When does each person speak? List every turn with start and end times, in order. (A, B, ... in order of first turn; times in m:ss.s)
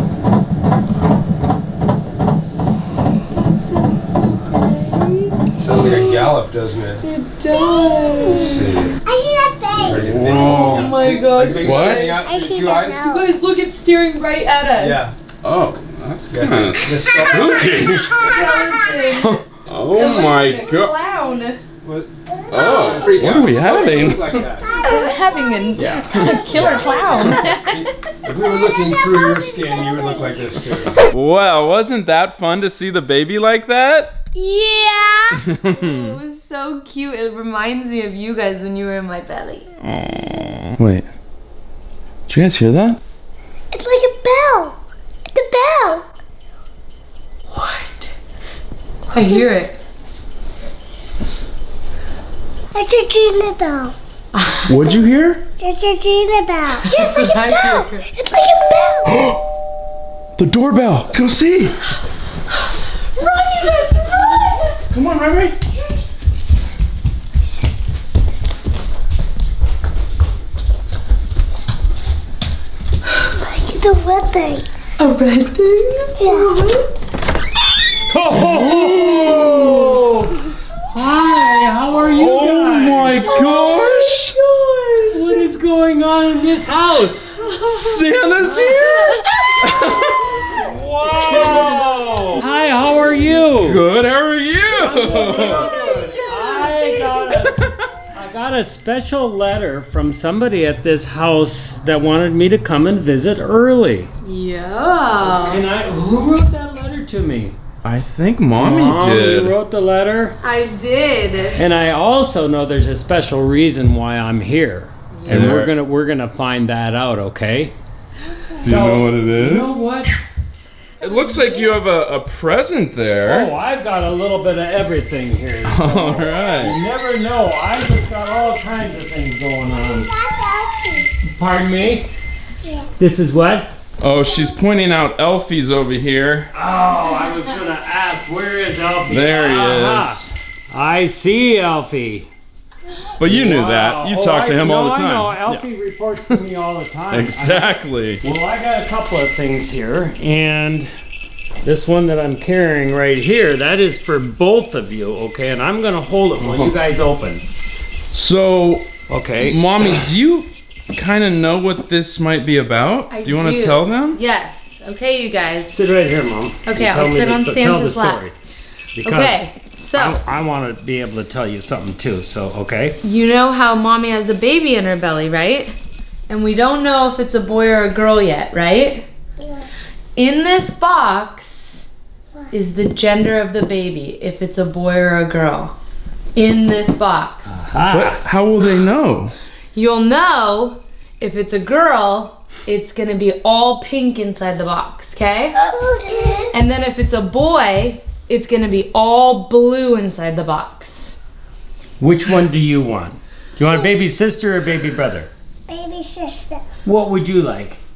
0:03.3-0:06.4 A
0:05.6-0:07.0 B
0:07.0-0:09.0 A
0:07.5-0:11.0 C
0:08.3-0:09.0 B
0:09.8-0:13.1 B
0:10.0-0:11.0 D
0:10.5-0:12.3 A
0:11.5-0:12.1 D
0:12.1-0:13.3 C
0:13.0-0:15.2 A
0:14.8-0:15.2 B
0:15.4-0:18.3 D
0:16.3-0:18.2 B
0:18.2-0:21.6 A
0:19.2-0:20.9 D
0:21.8-0:24.8 B
0:22.5-0:23.2 C
0:22.5-0:24.4 D
0:24.7-0:28.1 A
0:24.8-0:27.6 C
0:25.8-0:31.0 B
0:26.0-0:26.4 D
0:28.6-0:30.5 C
0:31.1-0:34.2 D
0:34.4-0:35.4 C
0:35.4-0:36.2 D
0:35.7-0:39.7 A
0:39.8-0:41.1 D
0:42.3-0:43.0 D
0:43.7-0:44.8 C
0:45.3-0:46.1 C
0:47.5-0:48.1 A
0:49.1-0:49.8 A
0:52.7-0:54.0 C
0:54.3-0:55.0 A
0:54.7-0:55.4 D
0:55.6-0:59.1 C
0:56.8-0:58.0 A
0:59.1-0:59.4 D
1:00.4-1:01.8 D
1:03.2-1:04.6 A
1:04.9-1:05.6 D
1:13.4-1:14.7 C
1:15.0-1:16.9 A
1:16.2-1:16.5 C
1:18.1-1:20.4 E
1:18.4-1:20.0 D
1:20.9-1:23.4 E
1:22.0-1:24.4 D
1:23.2-1:25.2 A
1:25.1-1:27.3 E
1:27.4-1:28.0 A
1:27.7-1:30.3 D
1:28.4-1:28.8 E
1:28.6-1:30.5 A
1:30.6-1:33.8 E
1:31.4-1:31.8 A
1:33.6-1:35.7 D
1:34.8-1:44.1 E
1:34.9-1:37.3 A
1:37.5-1:37.9 D
1:44.2-1:45.7 A
1:45.2-1:47.6 E
1:47.8-1:49.6 D
1:48.6-1:50.4 E
1:50.4-1:51.6 A
1:51.5-1:57.8 E
1:55.1-1:55.6 A
1:55.3-1:55.7 D
1:58.6-1:59.8 D
1:58.6-2:00.2 E
2:01.0-2:03.5 D
2:03.2-2:10.1 E
2:05.6-2:06.8 D
2:06.2-2:06.5 C
2:09.7-2:11.1 C
2:11.2-2:12.1 E
2:12.6-2:12.9 C
2:13.0-2:13.7 E
2:14.0-2:16.5 D
2:16.5-2:22.3 E
2:19.1-2:20.3 D
2:23.2-2:25.7 D
2:23.2-2:30.9 E
2:27.1-2:28.2 D
2:31.6-2:37.4 E
2:36.4-2:36.8 D
2:38.1-2:38.9 D
2:39.1-2:40.0 E
2:39.4-2:44.2 D
2:43.1-2:45.8 A
2:45.7-2:48.4 E
2:46.6-2:48.2 A
2:49.0-2:53.0 E
2:49.0-2:50.2 A
2:53.0-2:55.7 A
2:56.3-2:59.1 A
2:59.4-2:59.7 C
3:00.2-3:01.8 A
3:02.5-3:05.8 A
3:06.4-3:07.6 A
3:07.5-3:08.2 E
3:07.9-3:09.3 D
3:09.7-3:15.6 A
3:15.6-3:16.5 C
3:16.5-3:21.2 A
3:22.0-3:25.3 E
3:25.7-3:26.7 C
3:26.8-3:27.8 E